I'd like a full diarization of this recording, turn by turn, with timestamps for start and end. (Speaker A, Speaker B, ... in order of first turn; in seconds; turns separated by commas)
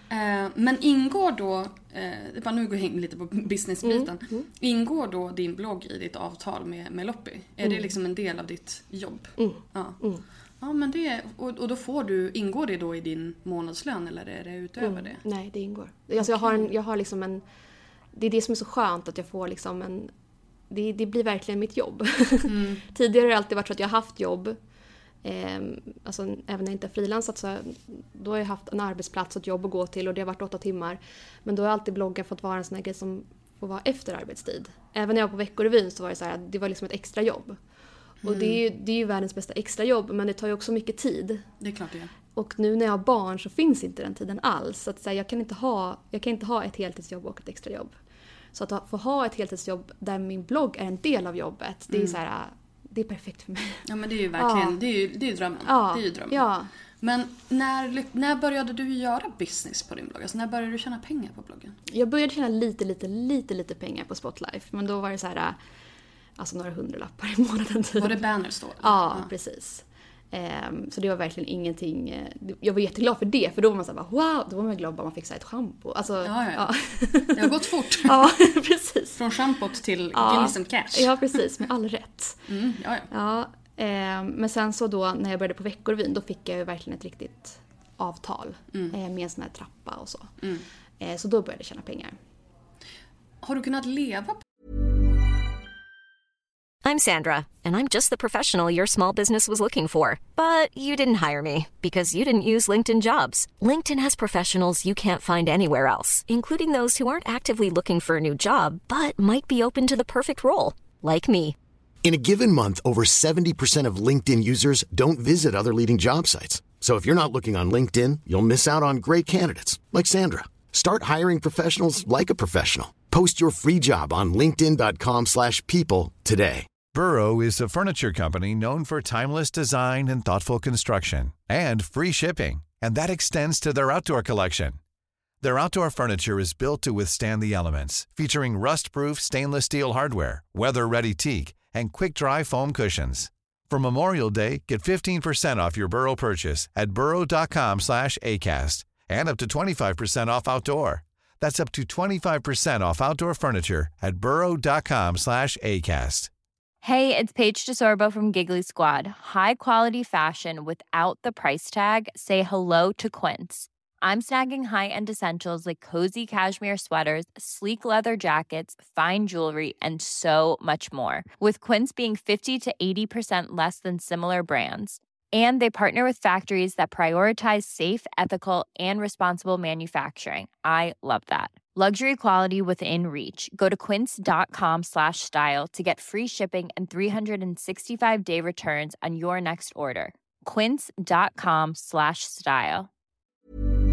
Speaker A: 0.1-10.0, Speaker B: 3.8-4.5, Speaker B: 7.6-7.9, Speaker B: 9.4-10.2, Speaker A: 10.6-15.2, Speaker B: 14.8-17.4, Speaker A: 16.2-16.7, Speaker B: 18.1-20.1, Speaker B: 20.7-24.6, Speaker A: 22.5-22.8, Speaker B: 25.2-37.6, Speaker A: 38.2-38.6, Speaker B: 38.2-41.4, Speaker A: 41.6-42.1, Speaker B: 42.4-48.0, Speaker B: 48.5-53.8, Speaker A: 51.9-52.2, Speaker A: 53.9-56.5, Speaker B: 54.4-54.8, Speaker B: 55.7-56.7, Speaker A: 57.0-61.8, Speaker B: 61.9-65.6, Speaker B: 66.4-68.2, Speaker A: 68.0-69.3, Speaker B: 68.8-77.5, Speaker A: 76.2-76.7, Speaker A: 77.3-78.3, Speaker B: 78.0-79.2, Speaker A: 79.2-81.4, Speaker B: 80.1-82.5, Speaker A: 82.5-83.1, Speaker B: 83.1-90.3, Speaker B: 91.0-92.2, Speaker A: 93.4-94.4, Speaker C: 96.8-111.5, Speaker D: 112.0-126.7, Speaker E: 126.9-134.8, Speaker E: 135.4-156.3, Speaker F: 156.8-192.9